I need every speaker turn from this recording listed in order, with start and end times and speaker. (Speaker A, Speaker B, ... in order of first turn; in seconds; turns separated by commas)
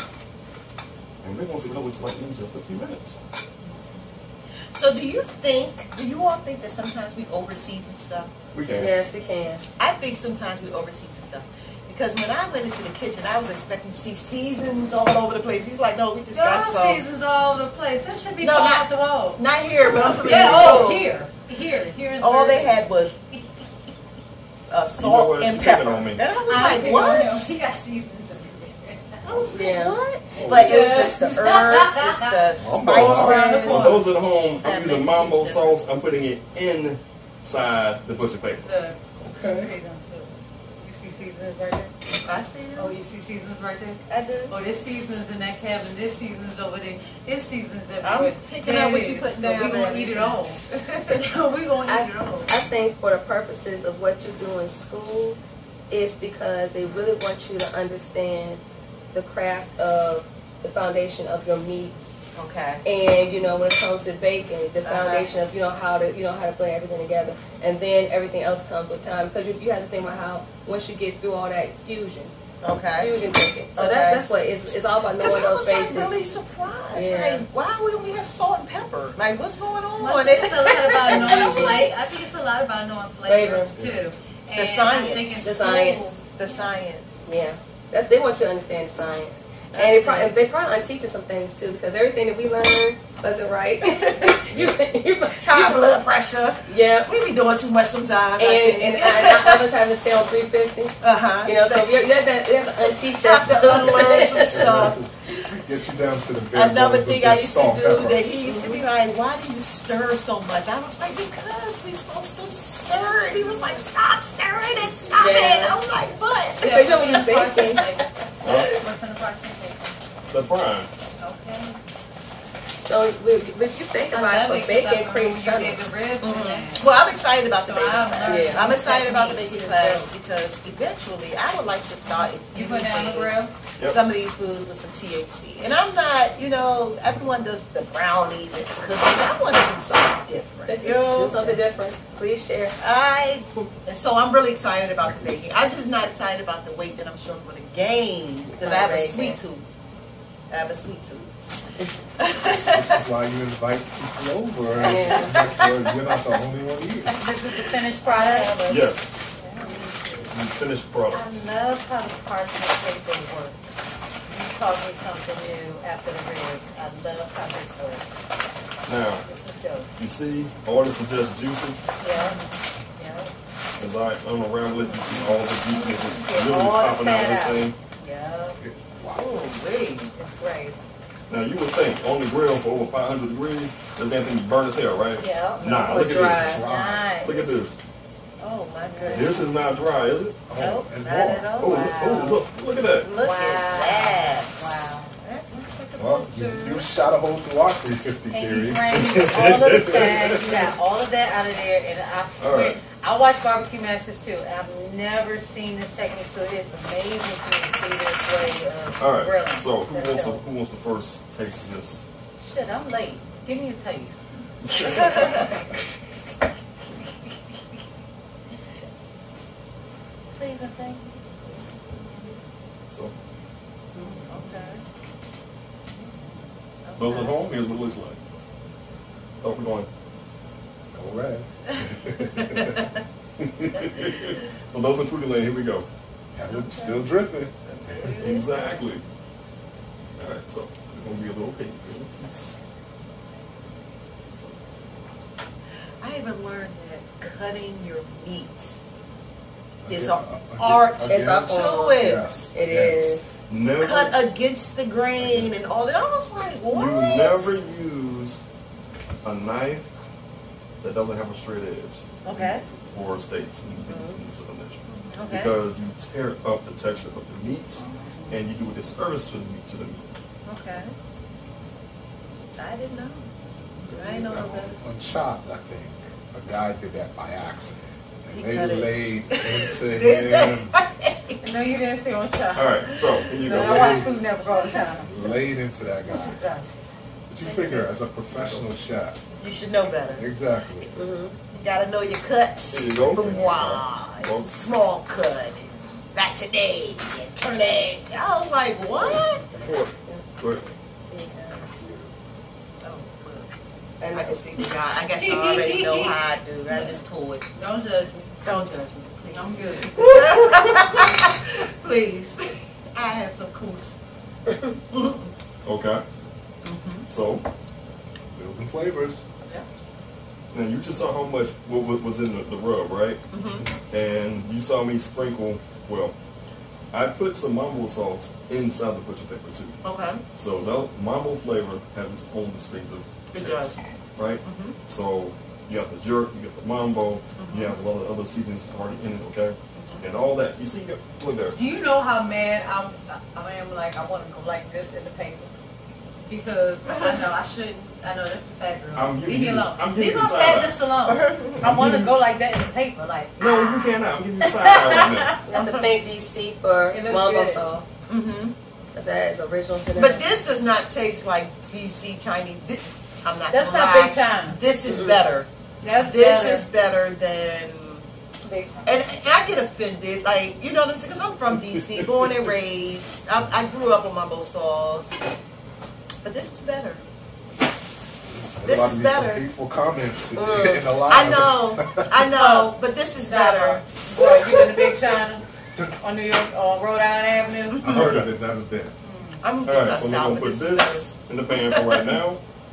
Speaker A: 1.2-3.2, Speaker B: 4.7-8.3, Speaker A: 8.5-8.9, Speaker C: 8.8-9.6, Speaker B: 9.8-17.1, Speaker D: 16.3-23.4, Speaker B: 18.4-21.2, Speaker A: 19.9-20.5, Speaker C: 20.2-21.1, Speaker B: 22.2-23.2, Speaker B: 24.7-27.5, Speaker A: 25.0-26.2, Speaker D: 26.5-29.5, Speaker B: 29.2-35.8, Speaker C: 29.5-30.0, Speaker E: 30.4-30.8, Speaker D: 30.4-32.4, Speaker E: 32.6-33.9, Speaker D: 33.0-34.0, Speaker A: 33.0-38.7, Speaker D: 38.6-41.9, Speaker E: 39.2-39.7, Speaker B: 42.1-43.0, Speaker D: 42.8-52.5, Speaker B: 44.1-44.5, Speaker B: 48.0-51.2, Speaker C: 51.9-55.4, Speaker C: 55.9-58.6, Speaker C: 59.1-62.0, Speaker B: 62.3-62.8, Speaker C: 62.9-72.3, Speaker B: 64.8-65.3, Speaker B: 72.6-73.2, Speaker C: 73.0-76.1, Speaker B: 73.8-74.2, Speaker B: 75.2-81.9, Speaker C: 76.9-77.5, Speaker D: 80.0-86.7, Speaker C: 81.0-81.9, Speaker C: 83.2-83.7, Speaker E: 83.8-84.1, Speaker B: 84.5-87.1, Speaker C: 85.4-86.2, Speaker C: 87.2-95.8, Speaker B: 89.7-90.3, Speaker B: 93.8-94.4, Speaker B: 95.4-99.7, Speaker C: 96.7-97.1, Speaker C: 98.4-104.8, Speaker B: 101.0-102.0, Speaker B: 103.2-105.0, Speaker E: 103.6-108.2, Speaker B: 106.5-116.8, Speaker C: 108.5-108.8, Speaker D: 112.9-113.8, Speaker D: 115.0-115.3, Speaker C: 115.2-115.8, Speaker D: 116.5-119.9, Speaker C: 116.6-117.9, Speaker A: 118.4-118.8, Speaker A: 120.3-120.9, Speaker D: 121.2-121.8, Speaker C: 122.8-125.8, Speaker D: 124.1-126.9, Speaker B: 126.2-141.6, Speaker D: 127.5-130.1, Speaker C: 128.2-128.7, Speaker D: 132.1-133.5, Speaker C: 140.7-142.8, Speaker B: 142.8-149.7, Speaker E: 145.0-145.4, Speaker C: 148.6-149.4, Speaker B: 150.5-151.3, Speaker B: 152.2-153.0, Speaker E: 152.5-157.2, Speaker C: 154.8-155.3, Speaker B: 154.8-156.2, Speaker D: 157.1-160.2, Speaker B: 157.6-158.6, Speaker A: 158.6-159.2, Speaker A: 160.2-161.4, Speaker D: 161.1-163.7, Speaker D: 164.3-168.1, Speaker A: 168.9-169.2, Speaker D: 169.2-169.9, Speaker A: 170.0-171.8, Speaker D: 172.0-172.5, Speaker D: 173.0-173.3, Speaker A: 173.8-177.8, Speaker B: 174.8-175.2, Speaker D: 175.7-178.6, Speaker E: 178.6-179.3, Speaker B: 179.1-180.3, Speaker D: 180.2-180.8, Speaker A: 181.3-186.7, Speaker D: 185.2-187.7, Speaker C: 185.9-186.6, Speaker E: 185.9-187.2, Speaker A: 187.2-187.8, Speaker B: 188.4-189.5, Speaker D: 188.9-189.4, Speaker A: 189.1-190.4, Speaker E: 190.5-191.6, Speaker B: 190.5-192.3, Speaker D: 191.5-192.4, Speaker A: 191.6-193.1, Speaker D: 193.0-195.2, Speaker B: 193.1-196.9, Speaker E: 196.0-200.5, Speaker D: 198.3-210.4, Speaker A: 199.0-200.7, Speaker A: 202.4-202.8, Speaker A: 209.0-212.1, Speaker D: 212.4-214.2, Speaker A: 214.6-215.3, Speaker B: 214.9-215.5, Speaker D: 220.3-222.4, Speaker B: 224.0-224.8, Speaker D: 224.0-224.6, Speaker D: 226.0-226.4, Speaker B: 226.8-227.4, Speaker A: 227.0-228.2, Speaker A: 229.4-229.9, Speaker E: 230.9-232.8, Speaker B: 231.8-233.0, Speaker A: 233.4-235.9, Speaker B: 233.7-234.4, Speaker E: 236.3-238.2, Speaker B: 236.5-237.0, Speaker B: 237.7-238.8, Speaker A: 238.0-239.0, Speaker A: 240.2-242.5, Speaker A: 244.3-244.6, Speaker B: 246.0-248.8, Speaker E: 249.8-253.2, Speaker B: 249.9-252.2, Speaker C: 251.0-253.2, Speaker A: 253.5-254.2, Speaker B: 253.8-257.5, Speaker E: 255.2-255.6, Speaker A: 256.7-258.4, Speaker A: 259.2-259.9, Speaker A: 260.8-270.1, Speaker B: 262.2-262.6, Speaker B: 264.9-265.5, Speaker B: 267.8-268.4, Speaker B: 270.5-270.9, Speaker B: 272.6-273.3, Speaker E: 273.9-280.8, Speaker B: 273.9-274.8, Speaker B: 278.3-281.4, Speaker D: 281.4-285.4, Speaker A: 282.5-284.1, Speaker E: 283.5-284.1, Speaker E: 285.1-286.4, Speaker D: 286.0-286.9, Speaker E: 287.3-289.2, Speaker B: 287.4-287.9, Speaker B: 289.4-290.2, Speaker E: 290.2-291.0, Speaker C: 290.9-291.4, Speaker B: 291.5-299.4, Speaker A: 292.7-294.5, Speaker C: 293.3-293.7, Speaker A: 298.9-300.7, Speaker C: 299.6-300.2, Speaker C: 301.1-301.6, Speaker E: 301.3-302.1, Speaker B: 302.8-303.5, Speaker C: 304.0-304.4, Speaker B: 304.1-307.4, Speaker D: 305.1-307.0, Speaker D: 307.5-308.4, Speaker B: 308.4-313.9, Speaker D: 309.3-310.6, Speaker B: 314.9-315.3, Speaker A: 315.6-316.0, Speaker B: 316.6-317.1, Speaker A: 317.1-317.4, Speaker E: 318.3-319.2, Speaker A: 320.5-323.2, Speaker B: 323.3-323.6, Speaker A: 323.9-326.1, Speaker A: 326.9-329.8, Speaker B: 329.8-330.2, Speaker A: 330.3-341.6, Speaker B: 333.3-333.8, Speaker B: 334.4-334.8, Speaker B: 337.4-337.8, Speaker B: 339.8-340.1, Speaker D: 341.5-345.5, Speaker D: 346.2-355.6, Speaker B: 346.9-347.2, Speaker A: 348.9-350.8, Speaker B: 351.0-351.9, Speaker A: 351.6-352.2, Speaker A: 353.4-355.4, Speaker C: 355.5-357.9, Speaker B: 355.5-355.9, Speaker D: 356.9-357.7, Speaker B: 358.1-358.6, Speaker C: 358.9-360.2, Speaker B: 359.9-368.1, Speaker D: 363.5-364.6, Speaker C: 364.9-365.2, Speaker D: 365.8-366.7, Speaker D: 368.4-369.0, Speaker B: 368.9-375.1, Speaker A: 371.5-372.5, Speaker B: 376.2-377.0, Speaker E: 378.3-382.3, Speaker B: 378.6-379.5, Speaker C: 380.4-380.9, Speaker B: 381.1-385.0, Speaker D: 382.3-388.0, Speaker E: 387.8-388.9, Speaker A: 387.9-388.3, Speaker D: 389.0-389.4, Speaker B: 389.4-392.1, Speaker A: 389.6-392.4